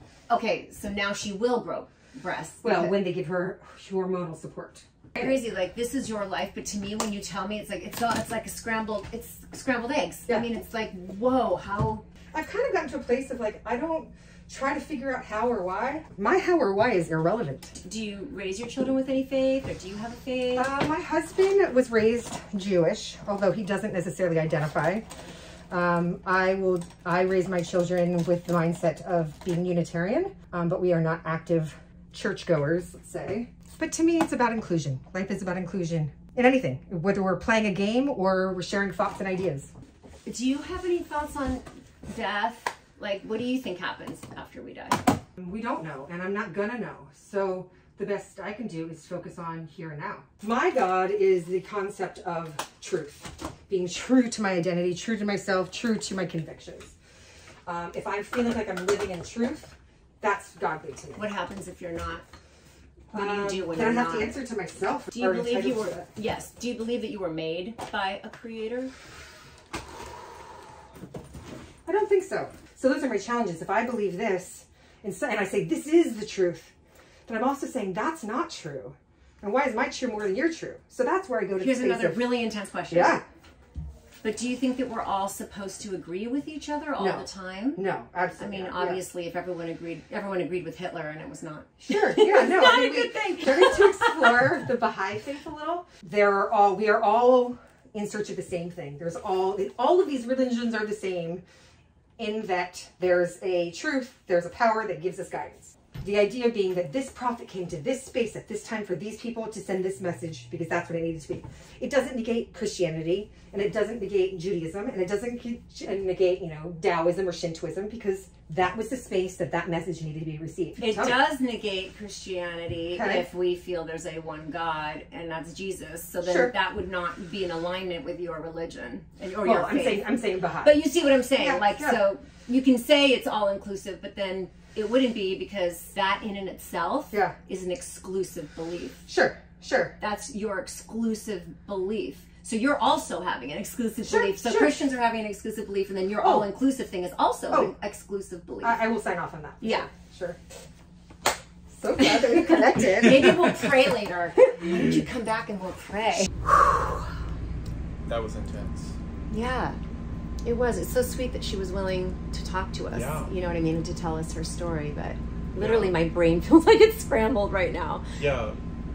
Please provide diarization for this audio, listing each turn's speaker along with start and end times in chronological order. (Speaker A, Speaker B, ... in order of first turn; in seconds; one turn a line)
Speaker A: 0.3-3.0
Speaker B: 2.6-5.3
Speaker A: 5.1-12.1
Speaker B: 12.3-17.7
Speaker A: 17.8-20.7
Speaker B: 20.6-25.1
Speaker B: 25.7-39.7
Speaker A: 40.2-45.0
Speaker B: 45.4-57.0
Speaker B: 57.6-61.2
Speaker A: 61.1-62.2
Speaker B: 63.1-66.1
Speaker A: 63.1-64.4
Speaker A: 65.1-68.9
Speaker B: 71.8-76.8
Speaker B: 77.2-82.3
Speaker A: 81.6-83.2
Speaker B: 82.9-83.2
Speaker A: 84.2-87.8
Speaker B: 87.0-89.0
Speaker A: 88.4-94.5
Speaker B: 91.8-101.4
Speaker B: 102.2-121.2
Speaker A: 120.8-139.1
Speaker B: 122.9-123.3
Speaker B: 126.2-126.5
Speaker B: 129.4-132.1
Speaker B: 137.1-137.4
Speaker B: 139.1-140.0
Speaker A: 140.0-148.8
Speaker B: 144.0-144.8
Speaker B: 146.2-146.5
Speaker B: 147.5-147.8
Speaker B: 148.6-150.4
Speaker A: 149.6-149.9
Speaker B: 151.7-153.3
Speaker A: 152.3-156.5
Speaker C: 153.0-153.9
Speaker C: 158.1-159.0
Speaker A: 159.3-159.8
Speaker A: 160.4-168.0
Speaker C: 162.9-163.3
Speaker C: 165.6-166.0
Speaker C: 168.2-168.6